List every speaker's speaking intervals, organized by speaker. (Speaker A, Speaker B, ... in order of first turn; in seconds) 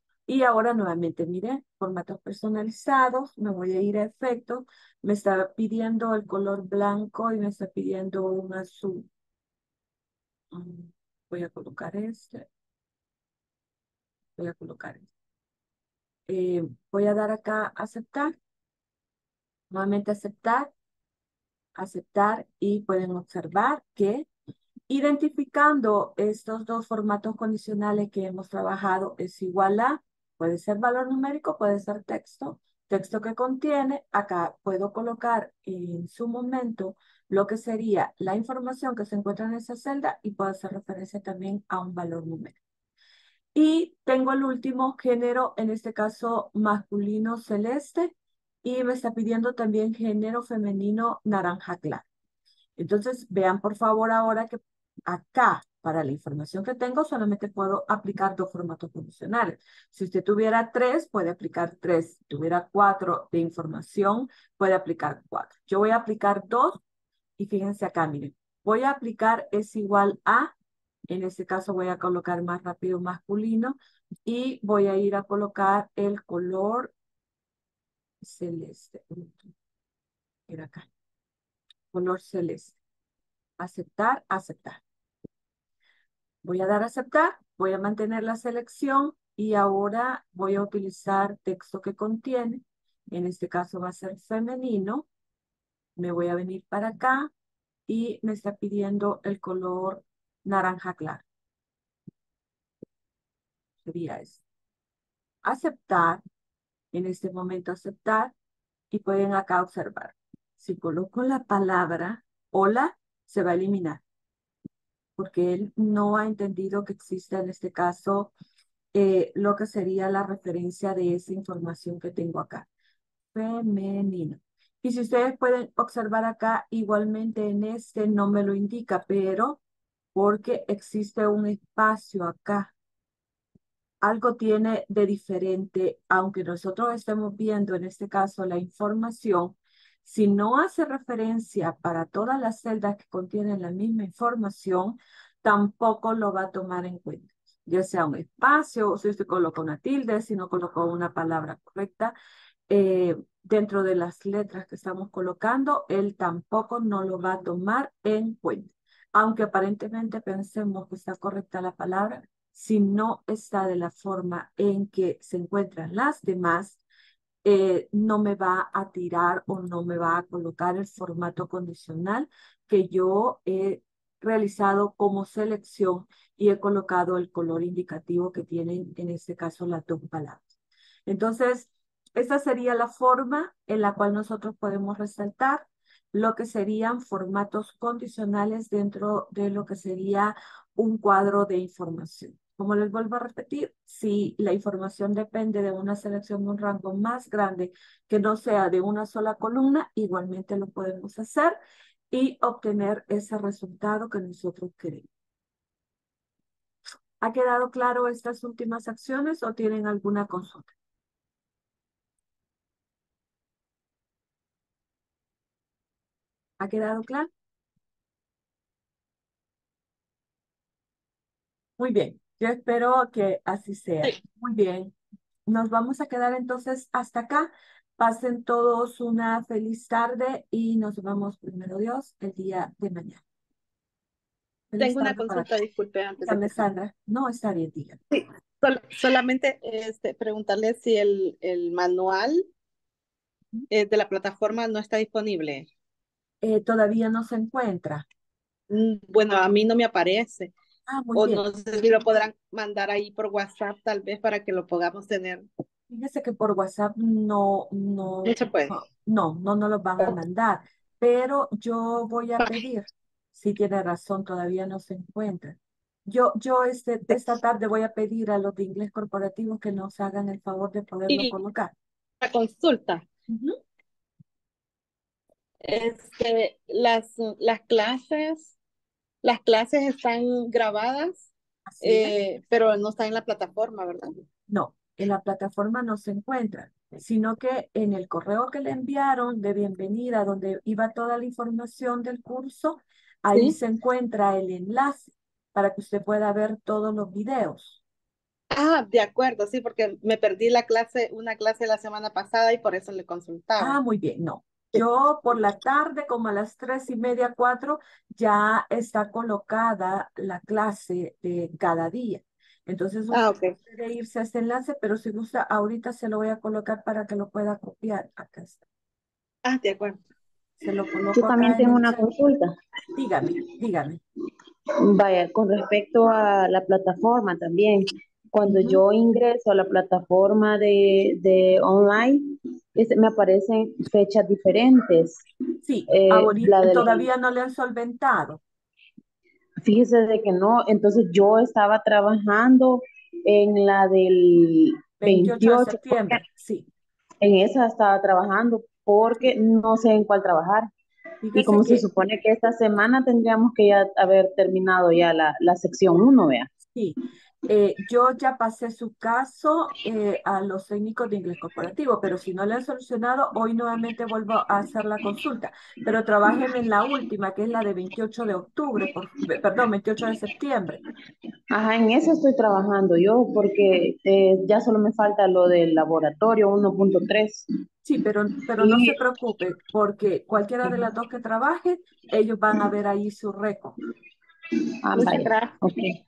Speaker A: 0.3-9.1, 10.5-12.5, 14.4-15.1, 16.3-18.4, 19.7-20.7, 21.8-24.3, 24.9-42.6, 43.5-52.0, 52.8-66.8, 67.4-70.5, 71.1-76.9, 78.2-79.5, 80.5-80.9, 81.9-82.8, 83.6-84.8, 86.4-95.1, 96.0-97.3, 97.9-101.2, 103.8-104.4, 105.4-106.2, 106.9-108.3, 108.9-114.0, 115.2-118.3, 118.9-122.7, 123.3-129.6, 130.1-132.7, 134.0-152.2, 152.7-166.8, 167.4-180.5, 181.1-201.6, 202.1-205.1, 207.2-210.7, 216.6-217.3, 221.8-224.9, 225.5-233.2, 234.7-235.5, 236.2-238.0, 246.4-248.1, 250.9-251.4, 255.9-271.7, 273.3-273.6, 281.7-282.1, 284.5-297.8, 303.6-318.6, 320.6-322.1, 322.9-324.0, 328.5-328.8, 335.6-338.4, 345.0-346.7, 351.2-351.9, 356.6-370.8, 377.8-383.8
Speaker B: 234.8-236.7, 238.1-242.5, 243.7-245.7, 248.7-250.5, 251.2-255.5, 258.3-258.8, 272.2-273.1, 275.6-278.5, 279.2-281.3, 281.8-284.1, 298.5-303.8, 313.1-313.6, 319.4-320.0, 384.9-385.6
Speaker C: 321.1-322.5, 324.8-335.2, 335.9-337.1, 339.6-346.2, 347.2-350.7, 351.3-356.5, 371.5-377.4, 378.6-379.0, 384.8-385.9